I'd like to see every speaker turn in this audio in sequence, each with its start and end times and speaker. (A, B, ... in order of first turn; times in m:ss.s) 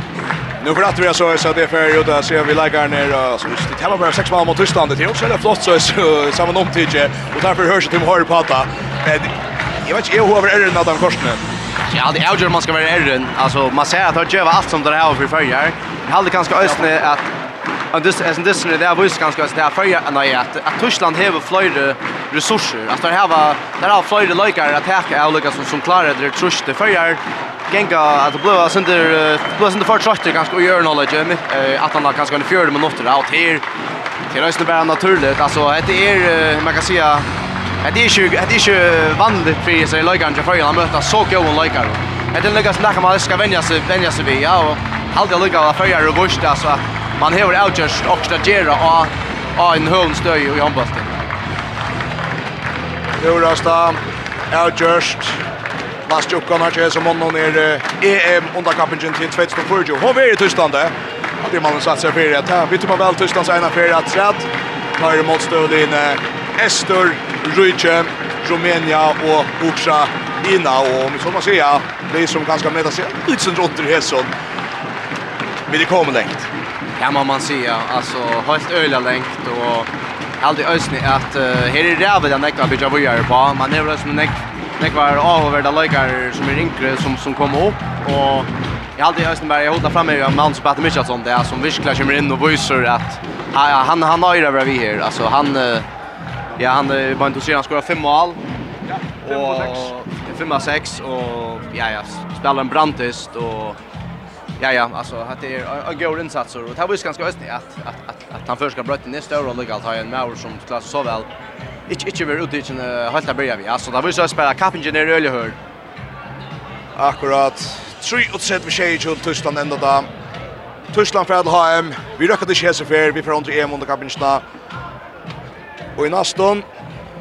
0:00.6-0:11.4 A
0:11.9-0:17.3 B
0:17.9-0:33.6 B
0:34.3-0:37.2 B
0:37.8-0:51.1 B
0:53.2-0:55.4 A
0:56.1-1:14.3 A
1:15.7-1:16.5 A
1:17.0-1:35.9 B
1:36.6-1:38.4 B
1:38.9-1:39.8 A
1:39.2-1:43.8 B
1:44.6-1:51.3 B
1:51.9-1:55.6 B
1:57.0-2:00.1 A
2:00.9-2:04.4 A
2:06.0-2:06.6 A